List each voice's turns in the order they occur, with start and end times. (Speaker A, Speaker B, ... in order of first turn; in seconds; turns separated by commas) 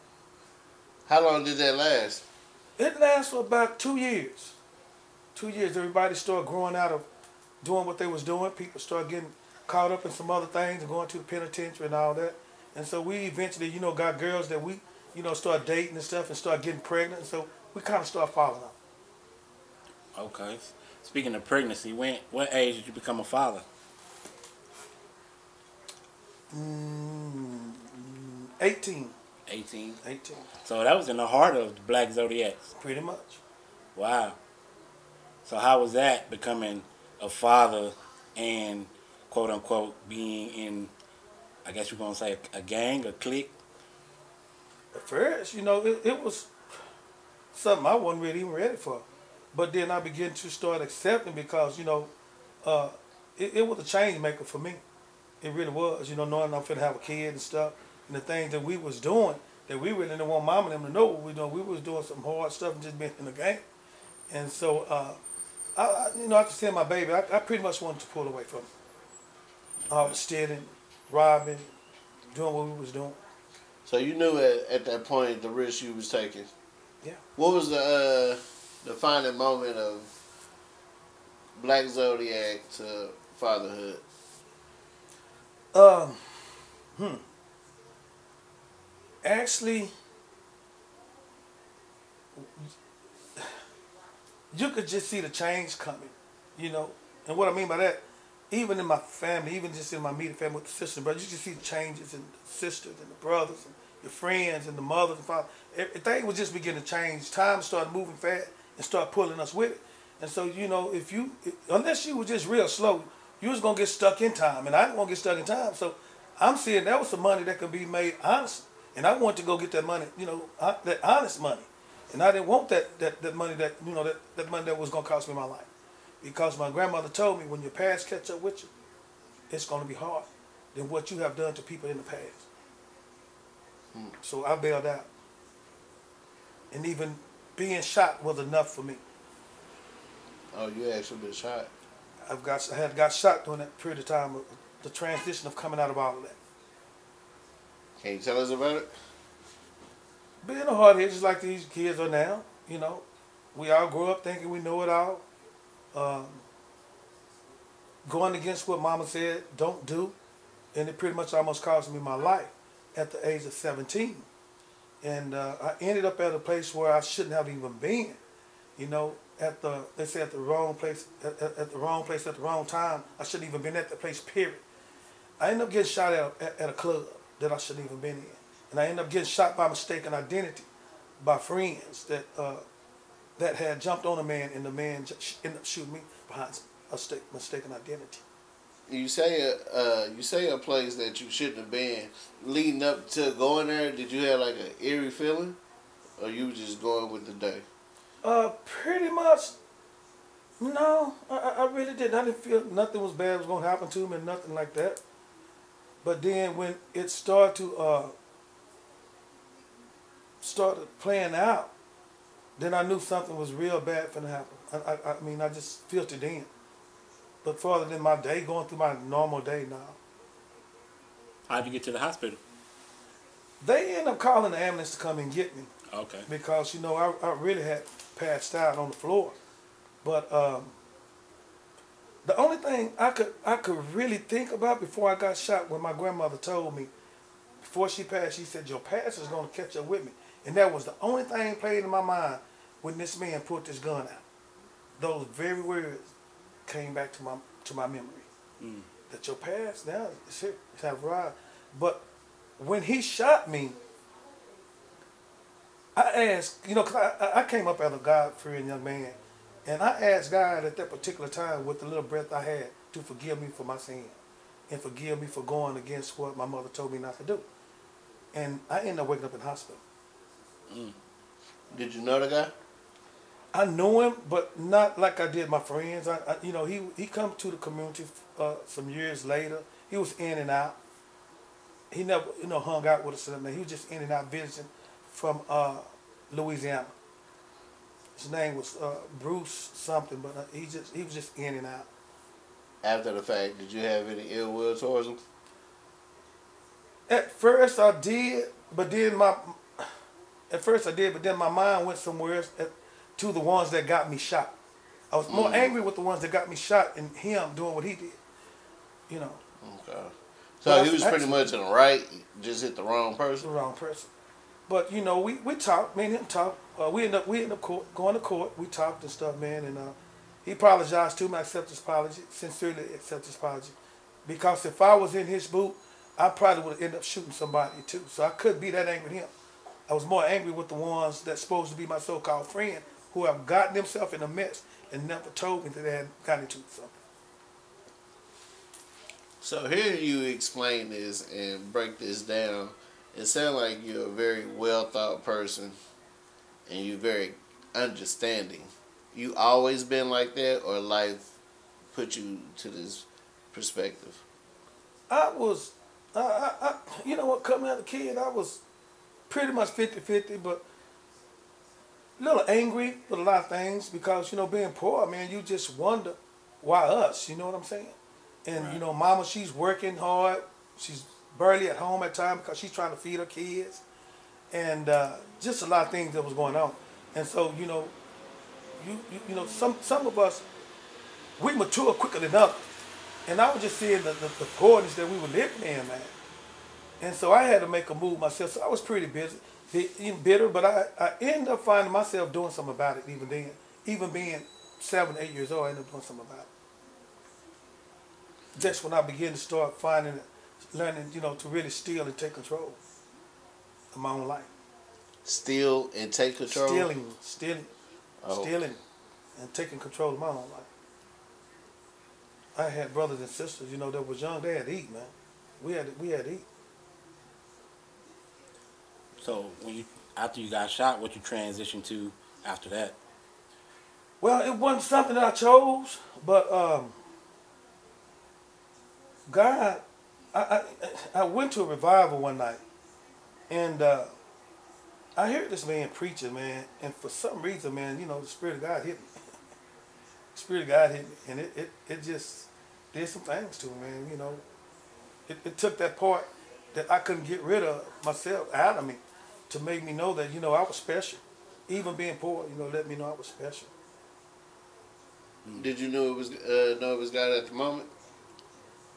Speaker A: 1.1-2.2, Speaker B: 2.8-4.5, Speaker B: 5.3-7.0, Speaker B: 7.6-18.8, Speaker C: 20.1-23.6, Speaker B: 26.5-29.1, Speaker C: 29.5-30.0, Speaker B: 30.0-30.5, Speaker C: 30.6-32.7, Speaker B: 32.8-33.4, Speaker C: 34.0-34.4, Speaker C: 35.4-40.9, Speaker C: 41.6-43.5, Speaker B: 44.9-46.5, Speaker B: 47.5-52.1, Speaker B: 52.6-54.8, Speaker B: 55.4-63.6, Speaker B: 64.3-65.2, Speaker B: 65.8-68.7, Speaker B: 69.9-71.7, Speaker B: 72.3-73.2, Speaker A: 73.8-76.5, Speaker A: 77.3-80.1, Speaker A: 81.5-84.0, Speaker B: 85.7-87.2, Speaker B: 89.2-89.9, Speaker B: 92.3-92.7, Speaker B: 94.5-125.7, Speaker B: 126.2-128.7, Speaker B: 129.5-132.5, Speaker B: 134.2-135.1, Speaker B: 136.7-139.0, Speaker A: 140.5-141.7, Speaker B: 142.3-146.4, Speaker A: 148.0-148.9, Speaker B: 150.4-155.2, Speaker B: 155.9-156.4, Speaker B: 158.0-160.1, Speaker B: 160.7-164.3, Speaker B: 165.0-168.2, Speaker B: 168.8-174.6, Speaker B: 175.4-180.7, Speaker B: 181.2-182.6, Speaker B: 183.4-188.2, Speaker A: 188.9-195.6, Speaker A: 196.2-197.7, Speaker B: 198.2-199.6, Speaker B: 200.6-205.0, Speaker B: 206.0-208.1, Speaker B: 210.4-211.7, Speaker B: 212.6-216.5, Speaker B: 217.4-220.0, Speaker C: 221.5-222.4, Speaker B: 223.6-225.7, Speaker C: 225.9-226.3, Speaker B: 226.3-229.3, Speaker B: 230.0-230.8, Speaker B: 232.2-236.9, Speaker B: 237.6-244.2, Speaker B: 245.0-246.1, Speaker B: 246.7-248.3, Speaker C: 248.6-248.9, Speaker B: 249.1-252.0, Speaker B: 252.6-253.8, Speaker B: 255.9-264.1, Speaker B: 264.7-267.4, Speaker B: 268.3-269.8, Speaker C: 270.7-270.9, Speaker A: 271.7-272.5, Speaker B: 273.5-280.8, Speaker B: 281.9-286.9, Speaker B: 288.1-291.9, Speaker A: 292.8-295.2, Speaker B: 297.1-299.9, Speaker B: 300.5-304.5, Speaker B: 305.1-308.2, Speaker A: 305.3-305.7, Speaker B: 309.1-309.4, Speaker A: 309.6-313.5, Speaker B: 310.6-311.5, Speaker B: 313.4-314.1, Speaker B: 314.7-323.7, Speaker B: 324.2-329.3, Speaker B: 329.9-336.9, Speaker A: 339.4-345.7, Speaker A: 346.7-351.3, Speaker A: 351.9-354.2, Speaker B: 355.1-358.6, Speaker B: 359.3-360.6, Speaker B: 362.2-373.8, Speaker C: 368.6-368.8, Speaker B: 374.5-377.9, Speaker B: 378.8-380.4, Speaker B: 381.4-382.6, Speaker B: 383.3-386.1, Speaker B: 387.0-396.5, Speaker B: 398.5-402.8, Speaker B: 403.9-404.5, Speaker A: 405.2-406.9, Speaker B: 406.4-407.7, Speaker A: 408.2-408.5, Speaker B: 408.3-408.8, Speaker B: 409.4-410.7, Speaker B: 412.6-416.4, Speaker C: 419.2-422.9, Speaker B: 424.2-426.9, Speaker B: 429.3-429.8, Speaker B: 430.3-432.6, Speaker B: 433.5-434.1, Speaker B: 435.1-439.1, Speaker B: 440.3-444.4, Speaker B: 445.3-453.7, Speaker A: 455.5-457.9